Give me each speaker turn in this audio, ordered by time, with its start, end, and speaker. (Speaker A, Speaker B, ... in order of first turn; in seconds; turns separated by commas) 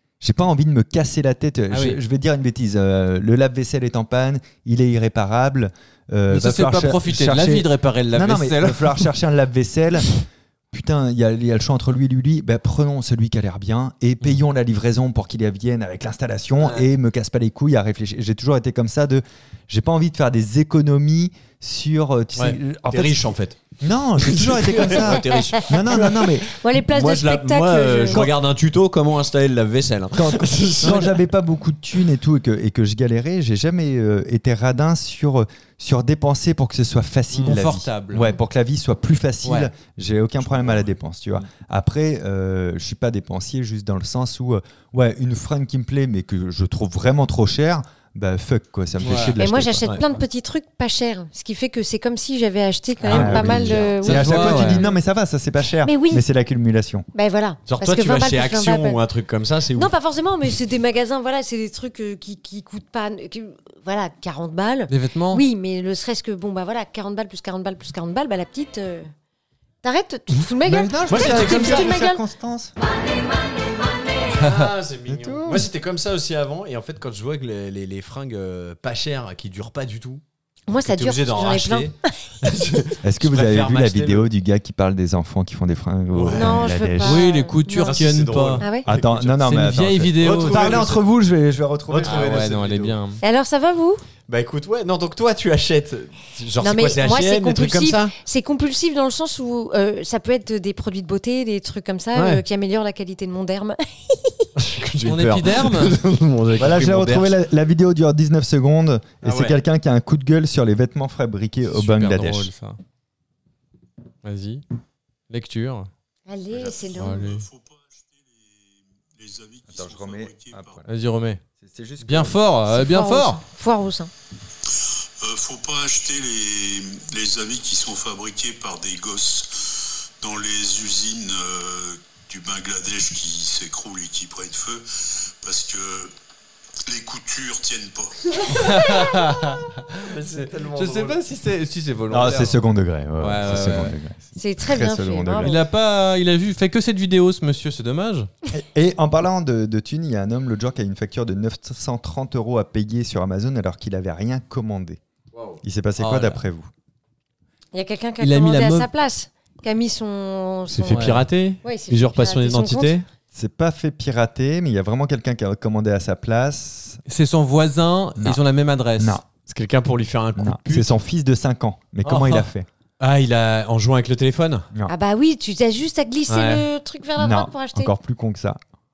Speaker A: 0.2-26.5, Speaker B: 1.7-2.0, Speaker B: 6.3-9.1, Speaker C: 16.6-16.9, Speaker C: 22.4-23.6, Speaker C: 24.2-31.2, Speaker D: 26.5-28.3, Speaker A: 30.1-49.9, Speaker B: 37.4-38.2, Speaker B: 39.4-39.7, Speaker C: 40.4-40.9, Speaker B: 49.0-49.4, Speaker D: 49.4-54.9, Speaker C: 53.0-54.4, Speaker A: 53.1-57.1, Speaker B: 54.0-54.8, Speaker D: 55.8-56.2, Speaker D: 57.1-59.0, Speaker C: 57.7-59.9, Speaker D: 59.8-69.1, Speaker B: 64.9-65.4, Speaker D: 69.8-72.2, Speaker A: 70.7-72.7, Speaker C: 71.1-72.0, Speaker C: 74.3-80.2, Speaker A: 75.1-75.7, Speaker D: 80.7-82.1, Speaker C: 80.8-84.2, Speaker A: 83.0-87.3, Speaker C: 86.1-86.7, Speaker D: 86.3-88.0, Speaker B: 87.0-88.7, Speaker C: 87.8-89.5, Speaker D: 88.6-88.9, Speaker A: 88.9-92.3, Speaker B: 89.4-90.9, Speaker C: 90.2-91.0, Speaker C: 91.9-93.0, Speaker B: 92.0-93.2, Speaker D: 93.2-94.0, Speaker C: 94.3-98.1, Speaker D: 96.6-104.5, Speaker C: 102.2-102.4, Speaker C: 104.6-107.3, Speaker B: 105.0-106.0, Speaker A: 106.6-112.5, Speaker C: 109.2-109.6, Speaker B: 111.7-112.8, Speaker B: 114.2-114.6, Speaker B: 115.3-115.9, Speaker D: 116.3-117.3, Speaker E: 116.5-120.8, Speaker B: 117.0-117.5, Speaker A: 119.7-120.9, Speaker B: 120.9-121.4, Speaker A: 121.6-122.4, Speaker B: 122.0-123.4, Speaker D: 122.7-124.1, Speaker E: 124.7-136.1, Speaker E: 136.9-138.4, Speaker B: 138.5-142.6, Speaker C: 140.0-141.2, Speaker A: 142.1-145.6, Speaker B: 143.2-143.9, Speaker D: 144.4-145.6, Speaker B: 145.4-148.3, Speaker A: 148.5-155.0, Speaker C: 155.3-155.6, Speaker A: 155.6-156.7, Speaker B: 156.0-156.4, Speaker D: 157.7-161.1, Speaker B: 158.2-158.9, Speaker C: 160.7-163.1, Speaker B: 160.9-161.2, Speaker D: 161.6-162.9, Speaker A: 163.3-167.0, Speaker B: 167.1-169.2, Speaker A: 169.0-169.2, Speaker C: 169.5-170.9, Speaker A: 170.4-172.7, Speaker C: 172.0-172.5, Speaker C: 173.0-174.7, Speaker D: 174.9-177.9, Speaker C: 176.3-176.7, Speaker A: 177.2-178.6